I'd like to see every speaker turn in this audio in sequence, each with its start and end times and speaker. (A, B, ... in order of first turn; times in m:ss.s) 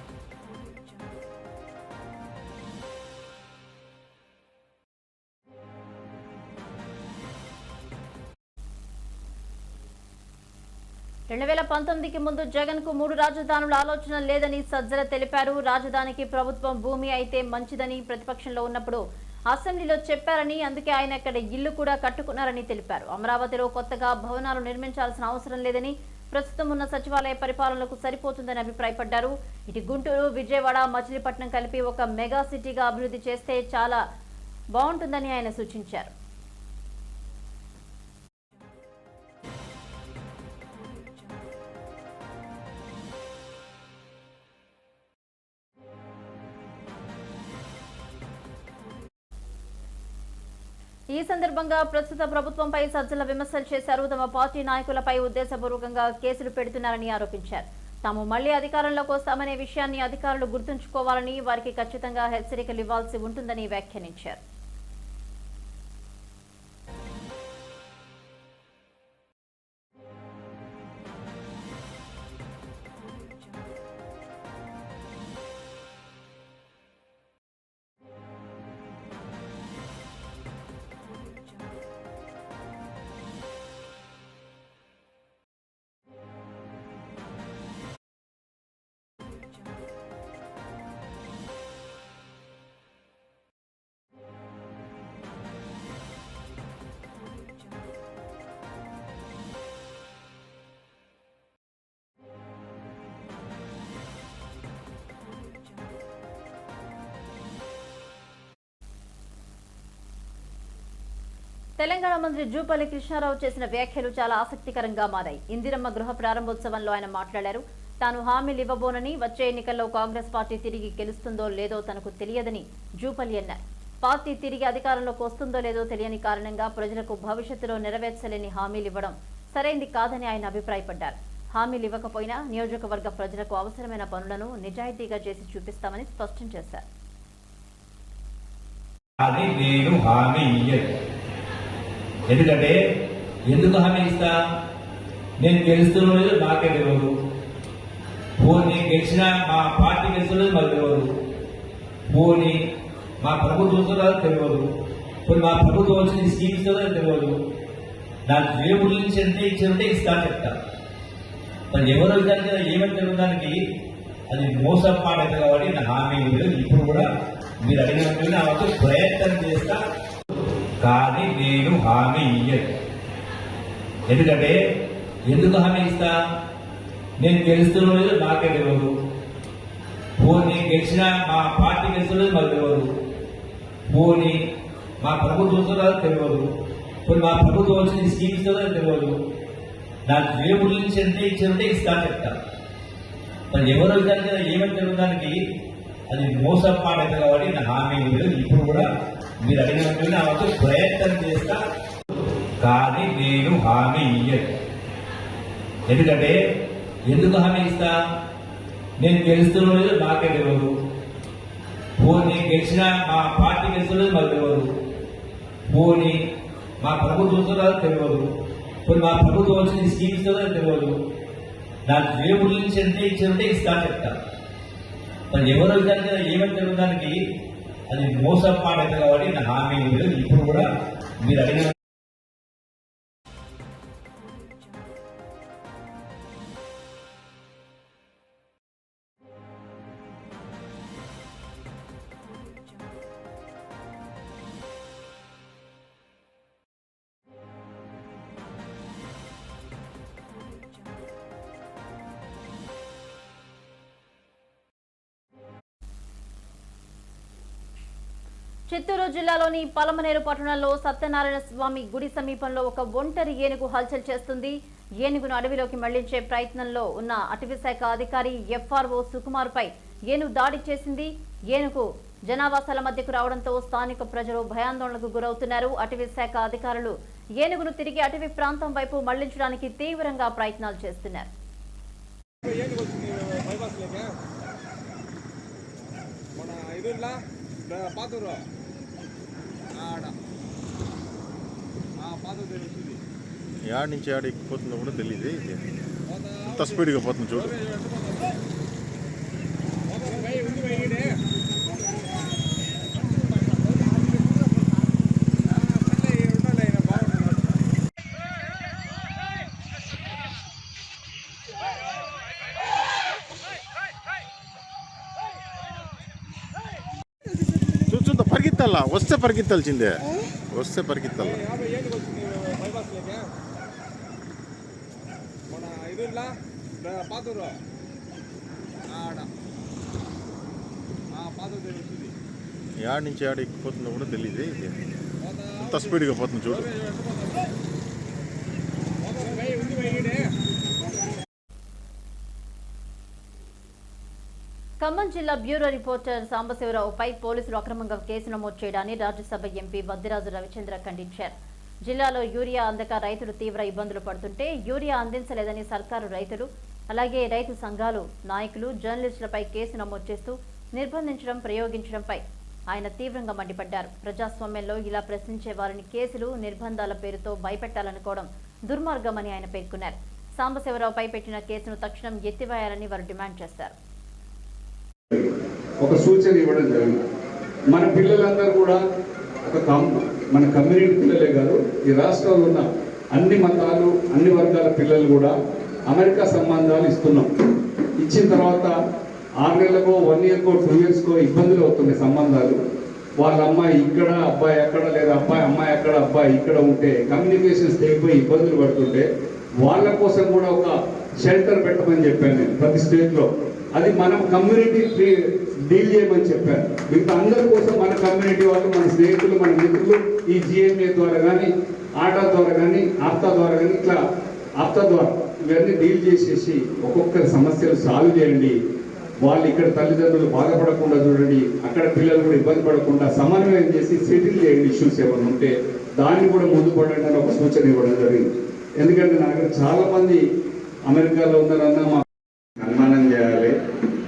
0:11.3-0:34.0 A
0:34.7-0:36.1 A
0:51.1-1:04.4 A
1:51.8-2:16.8 A
2:19.2-2:20.9 B
2:22.3-2:22.8 B
2:23.4-2:24.3 B
2:25.4-2:27.1 B
2:28.4-2:31.1 B
2:32.1-2:32.7 B
2:33.2-2:34.7 B
2:35.2-2:37.4 B
2:38.2-2:40.6 B
2:41.7-2:43.6 B
2:44.3-2:47.1 B
2:47.6-2:49.8 B
2:50.8-2:52.7 B
2:54.1-2:54.6 B
2:55.2-2:56.1 B
2:57.2-2:58.9 B
3:00.2-3:02.9 B
3:03.9-3:04.5 B
3:05.0-3:06.5 B
3:07.0-3:09.2 B
3:10.0-3:12.4 B
3:13.5-3:15.4 B
3:16.1-3:18.9 B
3:19.4-3:21.6 B
3:22.6-3:24.5 B
3:25.9-3:26.4 B
3:27.0-3:27.9 B
3:29.0-3:30.7 B
3:32.0-3:34.7 B
3:35.7-3:36.2 B
3:36.8-3:38.2 B
3:38.8-3:41.0 B
3:41.8-3:44.2 B
3:45.3-3:47.2 B
3:47.9-3:51.7 B
4:18.7-4:41.3 A
4:42.4-4:44.1 C
4:46.4-4:48.4 C
4:49.8-4:50.1 C
4:52.0-4:53.0 C
4:53.6-4:55.6 D
4:56.1-4:58.4 C
4:56.5-4:57.5 D
4:59.9-5:01.2 C
5:03.7-5:04.5 C
5:05.5-5:07.6 C
5:17.9-5:21.4 D
5:21.2-5:23.2 C
5:25.5-5:27.6 C
5:28.9-5:29.3 C
5:31.1-5:32.1 C
5:32.8-5:34.7 D
5:35.2-5:37.5 C
5:35.7-5:36.7 D
5:39.0-5:40.3 C
5:44.8-5:51.3 A
5:51.8-6:13.8 A
6:15.1-6:17.0 E
6:17.7-6:18.8 E
6:19.4-6:25.3 E
6:25.9-6:27.3 E
6:28.0-6:28.8 E
6:29.4-6:32.6 E
6:33.2-6:39.0 E
6:39.6-6:54.0 E
6:54.6-6:58.6 E
6:59.2-7:10.2 E
7:10.9-7:12.0 E
7:12.6-7:13.6 E